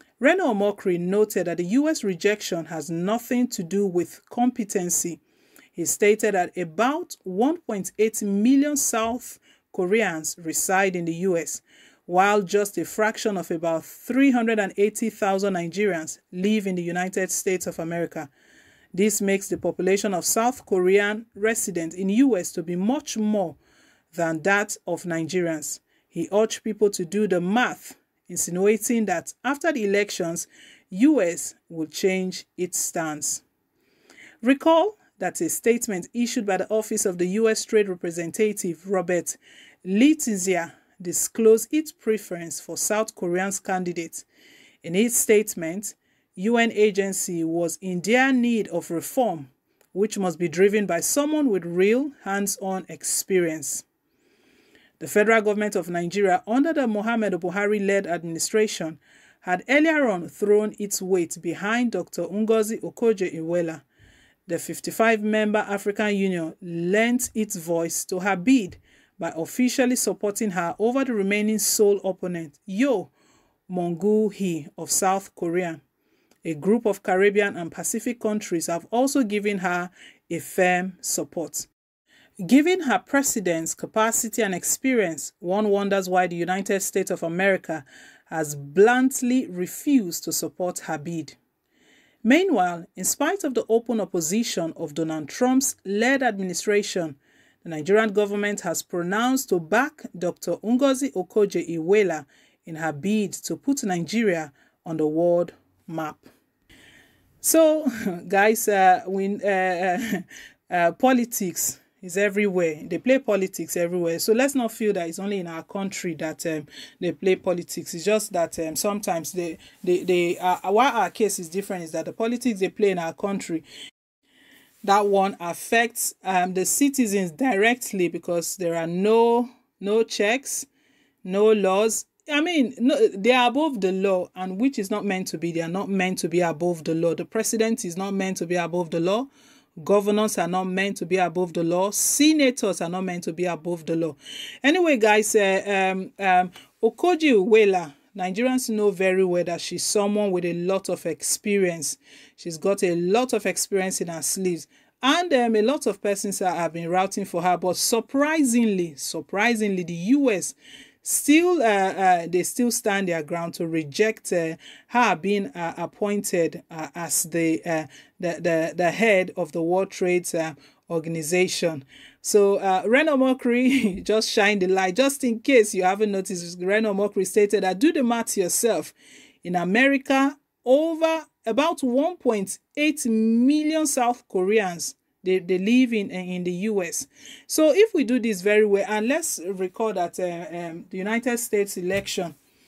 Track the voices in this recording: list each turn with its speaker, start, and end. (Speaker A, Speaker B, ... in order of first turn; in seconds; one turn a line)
Speaker A: 0.2-5.2
Speaker A: 5.7-18.3
Speaker A: 18.9-23.6
Speaker A: 24.1-33.4
Speaker A: 34.4-44.2
Speaker A: 44.8-53.9
Speaker A: 55.0-63.8
Speaker A: 64.5-73.1
Speaker A: 73.7-75.8
Speaker A: 76.4-81.7
Speaker A: 82.4-91.4
Speaker A: 92.2-106.3
Speaker A: 107.4-123.6
Speaker A: 124.8-130.7
Speaker A: 131.2-192.3